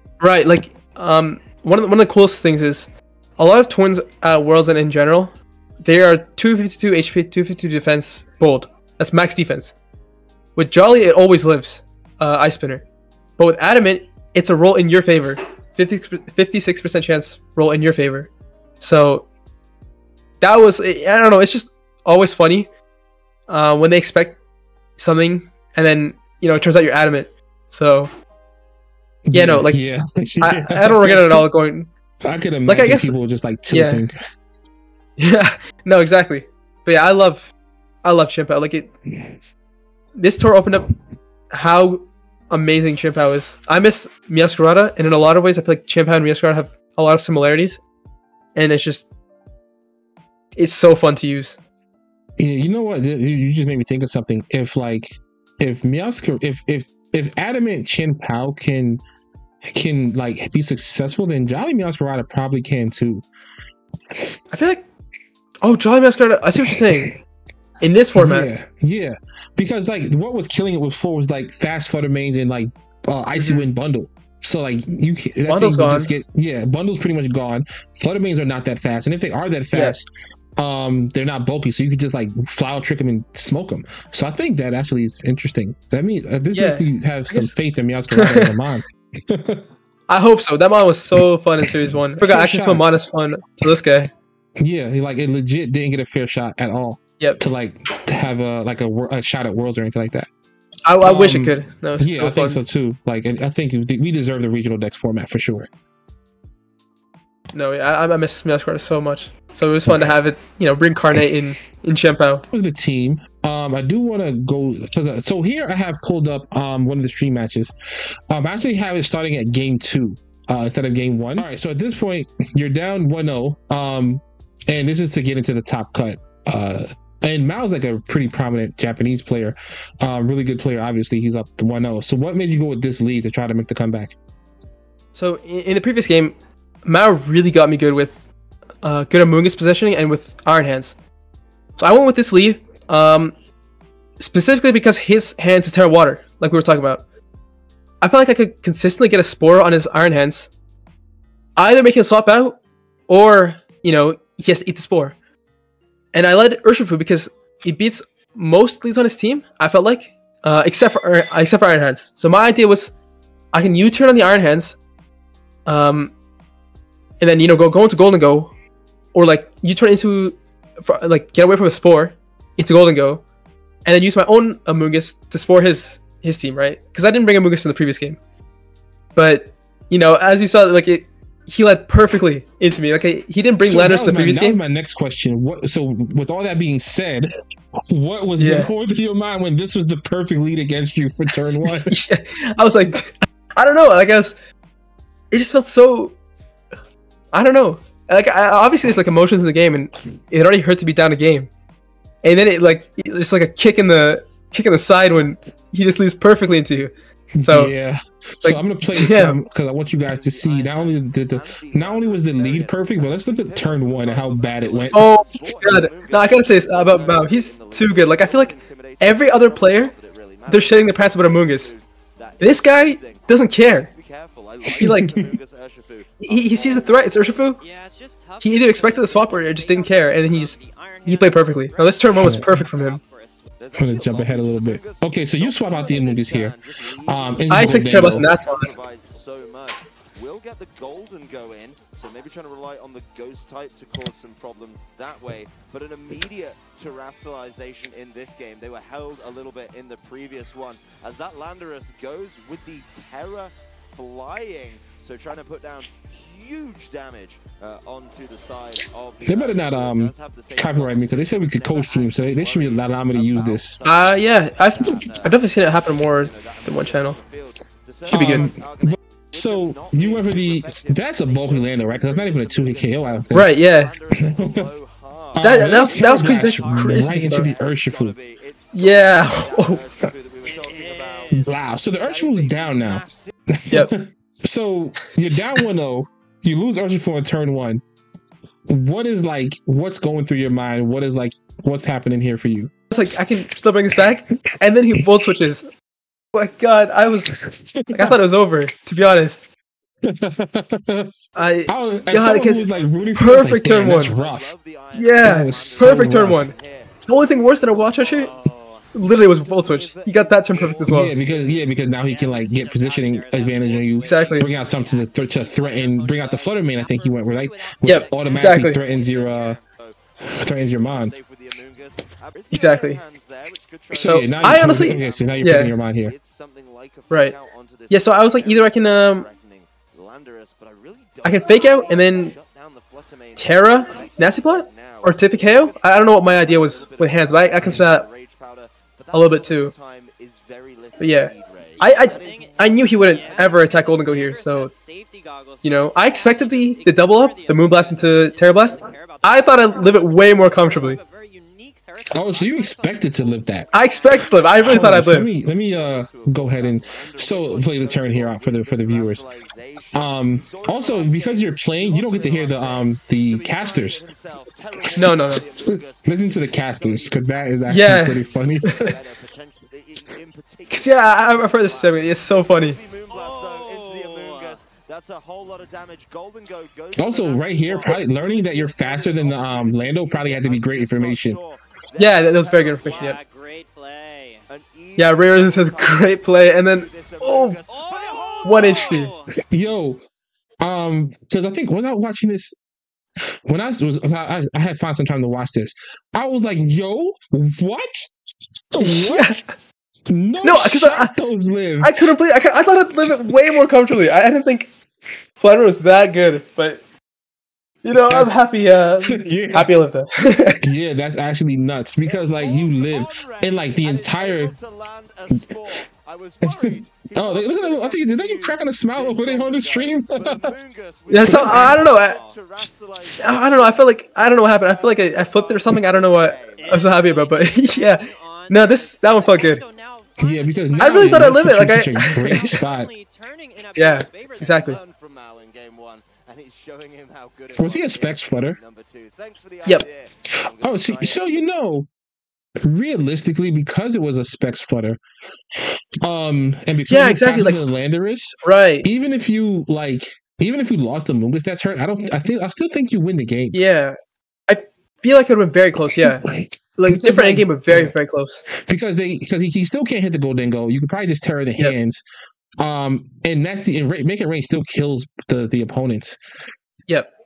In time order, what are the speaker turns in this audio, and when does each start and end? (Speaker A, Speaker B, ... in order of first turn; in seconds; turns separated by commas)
Speaker A: 0.2-9.7, Speaker A: 10.6-12.8, Speaker A: 13.4-18.3, Speaker A: 18.8-19.3, Speaker A: 20.4-22.7, Speaker A: 23.5-24.4, Speaker A: 25.0-28.1, Speaker B: 29.2-31.4, Speaker A: 29.3-29.8, Speaker A: 30.4-31.9, Speaker B: 32.2-34.1, Speaker A: 32.6-33.1, Speaker A: 33.7-34.0, Speaker A: 35.2-38.9, Speaker A: 40.1-40.9, Speaker A: 41.5-47.8, Speaker A: 48.5-49.1, Speaker A: 50.6-51.6, Speaker B: 52.4-59.0, Speaker B: 59.7-63.2, Speaker A: 64.5-64.8, Speaker A: 65.6-67.2, Speaker A: 67.8-68.5, Speaker B: 68.1-89.7, Speaker A: 73.4-73.7, Speaker A: 75.5-76.1, Speaker A: 86.5-87.5, Speaker A: 88.1-88.5, Speaker A: 90.1-94.1, Speaker B: 92.2-92.8, Speaker B: 94.6-100.3, Speaker A: 100.8-102.6, Speaker B: 101.0-105.7, Speaker A: 107.5-112.4, Speaker B: 109.9-110.1, Speaker B: 112.5-117.7, Speaker B: 118.3-134.2, Speaker A: 135.2-138.2, Speaker A: 138.8-140.9, Speaker A: 141.8-143.3, Speaker A: 144.2-147.0, Speaker A: 148.0-150.5, Speaker A: 151.6-155.2, Speaker A: 156.1-162.9, Speaker A: 163.5-164.8, Speaker A: 165.7-166.1, Speaker A: 167.2-168.5, Speaker A: 169.1-173.2, Speaker A: 173.8-178.2, Speaker A: 179.2-184.6, Speaker B: 183.6-187.3, Speaker B: 187.9-192.0, Speaker A: 188.4-188.7, Speaker A: 191.8-194.3, Speaker A: 195.3-196.2, Speaker A: 197.3-201.5, Speaker A: 202.2-206.9, Speaker B: 207.3-215.2, Speaker A: 207.5-207.7, Speaker A: 208.4-209.4, Speaker C: 209.9-227.5, Speaker A: 214.9-219.9, Speaker A: 220.5-221.7, Speaker A: 222.4-223.9, Speaker B: 224.7-225.3, Speaker A: 224.8-225.1, Speaker A: 226.2-227.6, Speaker D: 227.6-233.5, Speaker A: 228.4-233.0, Speaker B: 232.2-232.5, Speaker C: 233.6-283.5, Speaker B: 233.8-238.3, Speaker A: 237.5-238.7, Speaker B: 259.2-263.8, Speaker A: 263.8-267.2, Speaker B: 268.1-273.5, Speaker A: 268.1-268.5, Speaker A: 273.3-273.9, Speaker B: 274.2-274.7, Speaker B: 275.4-278.1, Speaker A: 275.4-277.5, Speaker A: 278.7-279.8, Speaker D: 280.5-281.4, Speaker B: 281.3-287.8, Speaker B: 288.7-292.7, Speaker A: 292.9-295.6, Speaker A: 296.3-297.3, Speaker B: 297.3-298.2, Speaker A: 297.9-299.4, Speaker B: 300.0-301.1, Speaker A: 301.4-304.1, Speaker B: 301.7-304.5, Speaker C: 302.2-307.1, Speaker A: 304.9-306.5, Speaker B: 305.2-306.4, Speaker A: 307.1-308.3, Speaker C: 307.8-311.7, Speaker A: 308.9-311.1, Speaker B: 310.9-319.6, Speaker D: 311.2-319.6, Speaker A: 314.0-314.5, Speaker A: 317.8-318.8, Speaker C: 318.9-343.8, Speaker B: 320.3-321.1, Speaker A: 322.5-323.0, Speaker B: 323.9-326.1, Speaker A: 324.0-325.7, Speaker A: 327.1-327.4, Speaker A: 327.9-329.3, Speaker A: 331.2-332.4, Speaker A: 333.4-338.1, Speaker A: 339.1-339.7, Speaker A: 341.0-344.7, Speaker D: 341.8-354.6, Speaker A: 345.6-351.0, Speaker B: 352.1-353.7, Speaker A: 353.7-355.3, Speaker C: 353.9-383.2, Speaker B: 354.6-359.2, Speaker B: 359.9-364.1, Speaker B: 364.8-368.8, Speaker A: 365.0-365.4, Speaker A: 367.7-368.9, Speaker A: 370.7-372.8, Speaker D: 373.1-374.6, Speaker B: 377.0-381.4, Speaker A: 382.0-383.2, Speaker D: 382.8-384.4, Speaker C: 384.5-389.1, Speaker A: 385.0-387.6, Speaker D: 387.7-389.4, Speaker A: 388.4-389.1, Speaker B: 389.5-390.0, Speaker B: 390.6-392.5, Speaker B: 393.5-398.0, Speaker B: 398.7-399.4, Speaker A: 398.8-399.5, Speaker B: 400.1-402.0, Speaker A: 400.4-401.1, Speaker A: 401.8-404.7, Speaker A: 405.4-406.8, Speaker A: 407.8-410.6, Speaker B: 408.1-408.4, Speaker B: 409.0-409.7, Speaker B: 410.6-414.5, Speaker C: 412.0-426.9, Speaker B: 416.4-420.5, Speaker A: 421.1-422.2, Speaker B: 421.2-421.8, Speaker A: 423.2-429.6, Speaker D: 426.4-434.7, Speaker B: 430.2-432.9, Speaker A: 430.8-432.5, Speaker A: 433.8-434.8, Speaker C: 434.5-441.5, Speaker B: 437.6-438.6, Speaker B: 440.6-441.9, Speaker B: 442.6-445.0, Speaker B: 446.0-453.6, Speaker A: 446.9-447.6, Speaker A: 448.4-448.9, Speaker A: 453.5-454.0, Speaker A: 454.5-456.2, Speaker B: 456.2-457.9, Speaker A: 456.8-458.4, Speaker B: 458.6-462.0, Speaker B: 462.6-466.2